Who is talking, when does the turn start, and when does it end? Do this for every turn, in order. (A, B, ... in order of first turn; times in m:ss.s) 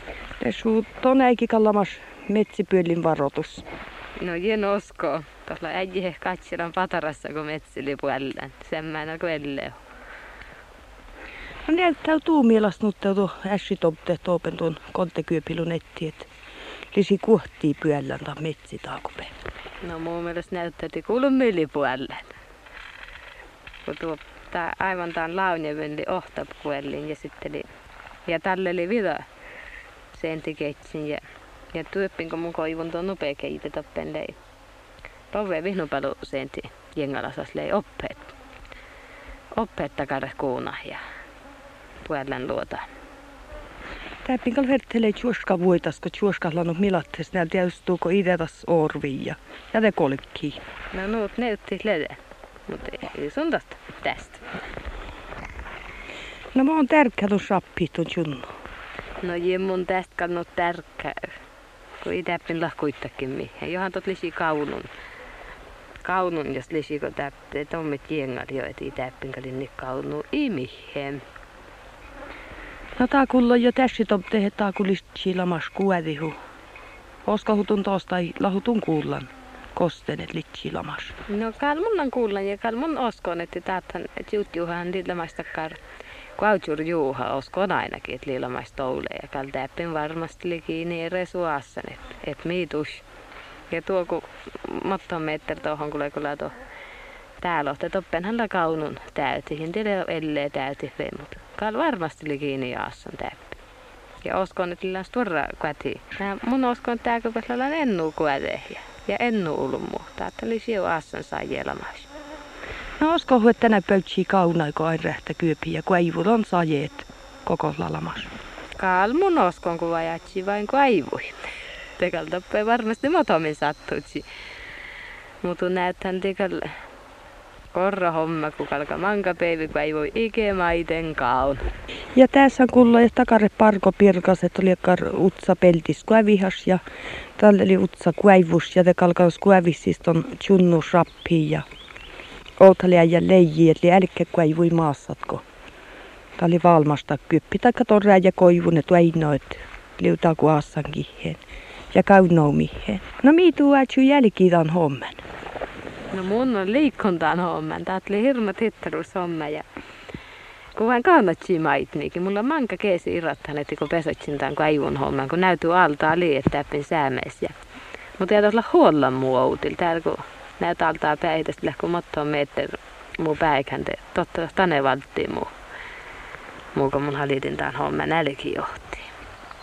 0:00.4-0:03.6 A
0:04.2-0:09.8 B
0:11.7-0:16.3 A
0:16.9-0:19.3 A
0:19.8-0:22.4 B
0:23.8-0:27.7 B
0:28.3-0:29.2 B
0:30.1-0:34.4 B
0:35.3-0:38.3 B
0:39.6-0:41.0 B
0:42.0-0:42.8 B
0:44.2-0:50.6 A
0:50.9-0:54.4 B
0:56.5-0:58.5 A
0:59.2-1:01.3 B
1:02.0-1:04.9 B
1:06.0-1:11.2 B
1:13.0-1:16.4 A
1:17.2-1:21.2 A
1:21.3-1:25.8 B
1:26.4-1:33.0 B
1:33.7-1:36.6 B
1:37.4-1:43.6 B
1:44.2-1:52.1 B
1:53.0-1:58.3 A
1:58.8-2:01.3 B
2:02.0-2:04.2 B
2:05.4-2:06.7 B
2:07.7-2:11.6 B
2:12.1-2:16.8 A
2:17.4-2:21.7 A
2:22.6-2:25.4 A
2:26.4-2:35.2 A
2:36.1-2:39.6 B
2:40.8-2:47.6 B
2:48.2-2:55.5 B
2:56.7-2:59.1 B